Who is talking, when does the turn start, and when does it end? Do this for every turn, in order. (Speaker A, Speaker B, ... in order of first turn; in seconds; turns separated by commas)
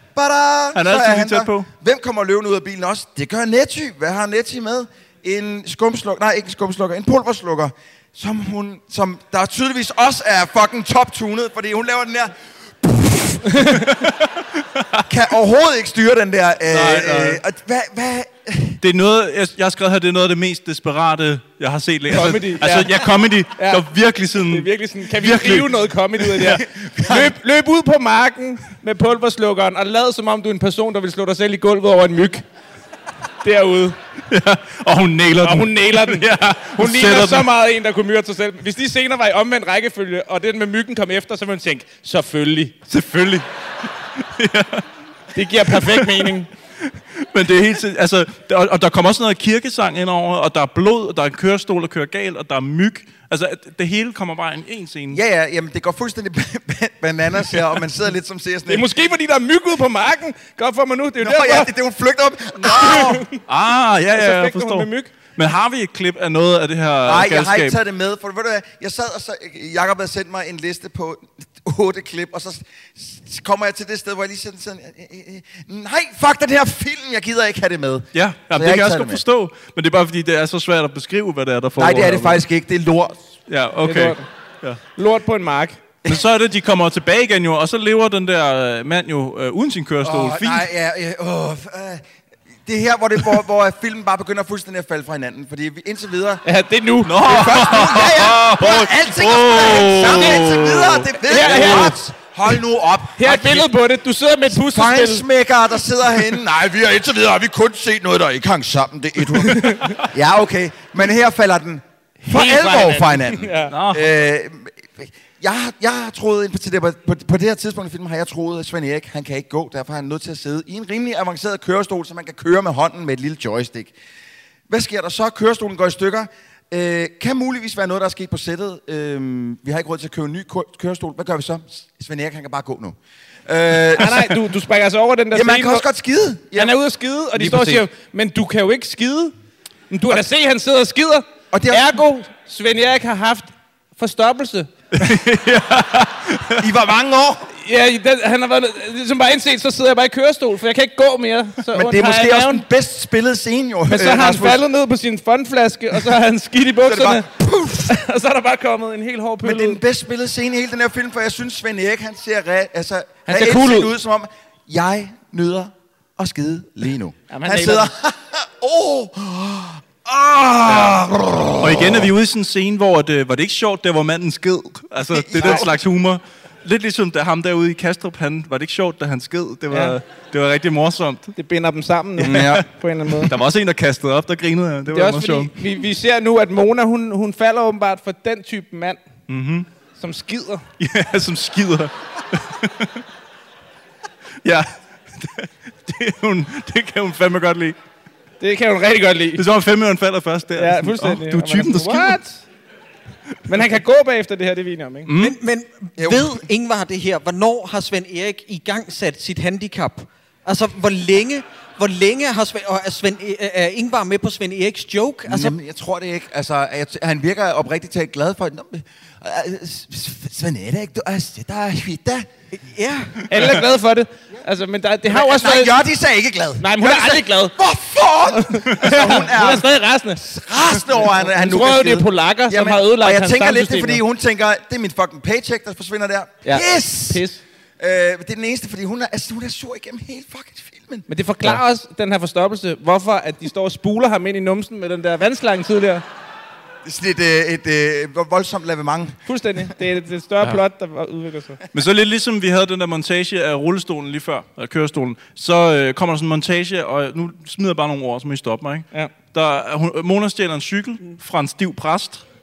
Speaker A: 0.2-13.6, Speaker B: 0.8-1.7, Speaker B: 13.8-15.1, Speaker A: 15.1-18.8, Speaker B: 16.7-17.4, Speaker B: 18.8-26.6, Speaker C: 22.1-23.0, Speaker C: 23.6-23.8, Speaker C: 24.4-32.4, Speaker A: 26.7-27.3, Speaker C: 33.4-34.0, Speaker B: 34.3-37.5, Speaker C: 35.4-42.8, Speaker B: 42.9-43.5, Speaker B: 44.4-44.9, Speaker C: 45.4-46.5, Speaker B: 45.7-46.3, Speaker B: 46.9-55.2, Speaker A: 55.1-58.9, Speaker C: 58.7-61.7, Speaker A: 61.2-63.3, Speaker C: 62.6-63.4, Speaker B: 63.5-67.8, Speaker C: 64.1-65.1, Speaker A: 67.0-79.2, Speaker B: 78.1-82.4, Speaker A: 81.8-83.2, Speaker B: 83.5-84.8, Speaker C: 83.8-84.3, Speaker C: 85.0-85.8, Speaker B: 86.1-90.7, Speaker A: 90.0-92.0, Speaker A: 92.7-96.4, Speaker C: 96.5-97.2, Speaker B: 97.0-102.0, Speaker A: 97.2-103.7, Speaker C: 100.1-100.5, Speaker C: 101.2-102.0, Speaker C: 103.2-105.2, Speaker A: 104.5-123.9, Speaker C: 109.5-110.0, Speaker C: 112.3-113.7, Speaker B: 113.7-114.2, Speaker A: 124.7-134.4, Speaker C: 134.0-135.8, Speaker A: 135.3-136.8, Speaker C: 136.5-139.3, Speaker D: 137.4-137.8, Speaker C: 139.9-144.7, Speaker A: 141.5-142.0, Speaker B: 144.9-146.7, Speaker A: 146.6-147.5, Speaker C: 147.6-152.6, Speaker A: 151.7-154.6, Speaker C: 153.9-157.2, Speaker A: 156.8-158.0, Speaker C: 157.9-159.8, Speaker A: 159.4-172.1, Speaker C: 163.3-163.9, Speaker C: 167.3-167.9, Speaker B: 170.7-171.0, Speaker B: 171.6-181.3, Speaker A: 175.1-175.7, Speaker C: 175.4-175.7, Speaker C: 179.7-180.0, Speaker C: 181.4-183.3, Speaker A: 182.2-182.7, Speaker B: 182.2-182.6, Speaker B: 183.2-185.5, Speaker C: 184.9-189.0, Speaker B: 189.3-189.7, Speaker C: 190.0-190.7, Speaker B: 190.8-193.0, Speaker B: 194.4-197.8, Speaker C: 198.4-199.4, Speaker B: 199.3-202.2, Speaker C: 200.6-202.4, Speaker C: 203.5-205.1, Speaker B: 205.1-205.4, Speaker D: 205.2-215.5, Speaker A: 206.0-206.4, Speaker A: 215.3-222.3, Speaker D: 222.6-223.3, Speaker C: 223.3-225.7, Speaker A: 225.1-237.2, Speaker C: 226.6-227.6, Speaker C: 228.3-230.2, Speaker C: 231.0-234.0, Speaker C: 236.4-237.4, Speaker A: 237.8-241.1, Speaker C: 241.1-246.0, Speaker A: 246.8-249.2, Speaker C: 249.3-251.6, Speaker B: 251.7-262.2